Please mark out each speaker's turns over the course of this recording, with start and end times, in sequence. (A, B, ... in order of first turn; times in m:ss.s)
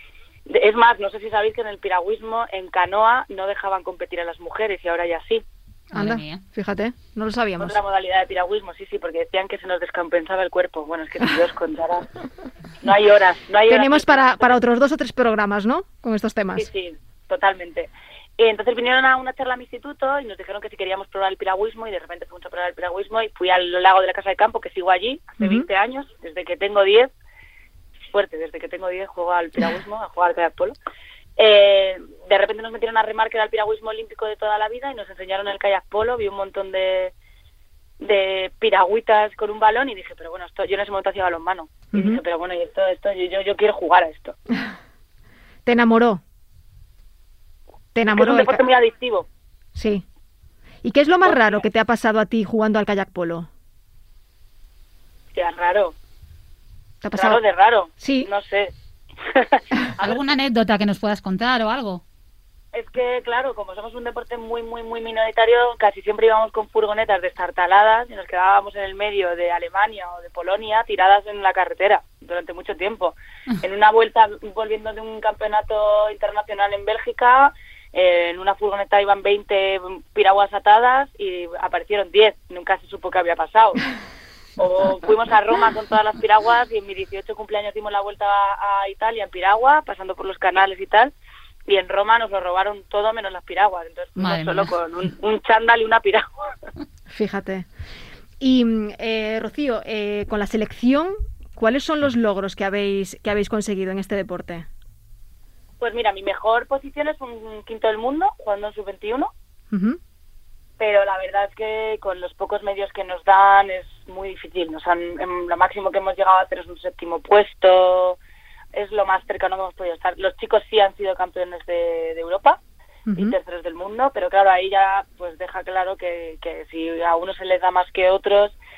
0:00.5-0:05.4 A
0:05.9-0:07.8 B
0:05.9-0:06.4 C
0:07.6-0:12.1 A
0:12.8-0:14.6 A
0:13.7-0:16.7 B
0:16.6-0:27.1 A
0:25.4-0:25.7 B
0:28.1-0:30.8 A
0:31.4-0:37.1 A
0:38.0-0:44.4 A
0:41.9-0:42.2 B
0:45.7-0:46.2 B
0:48.0-0:48.6 B
0:48.1-0:49.3 A
0:49.8-0:50.0 B
0:50.8-0:53.5 B
0:51.2-0:51.6 A
0:55.4-0:56.0 A
0:57.0-0:57.4 B
0:57.1-0:58.7 A
0:58.0-0:58.3 B
0:59.2-1:00.3 A
1:00.0-1:02.0 C
1:02.7-1:23.9 A
1:24.6-1:31.1 A
1:31.7-1:36.5 A
1:34.2-1:34.7 C
1:37.1-1:37.7 B
1:38.4-1:44.7 B
1:45.8-1:49.3 A
1:49.7-1:50.0 B
1:50.8-1:58.2 A
1:58.7-2:02.6 A
2:03.1-2:03.4 B
2:03.2-2:08.6 A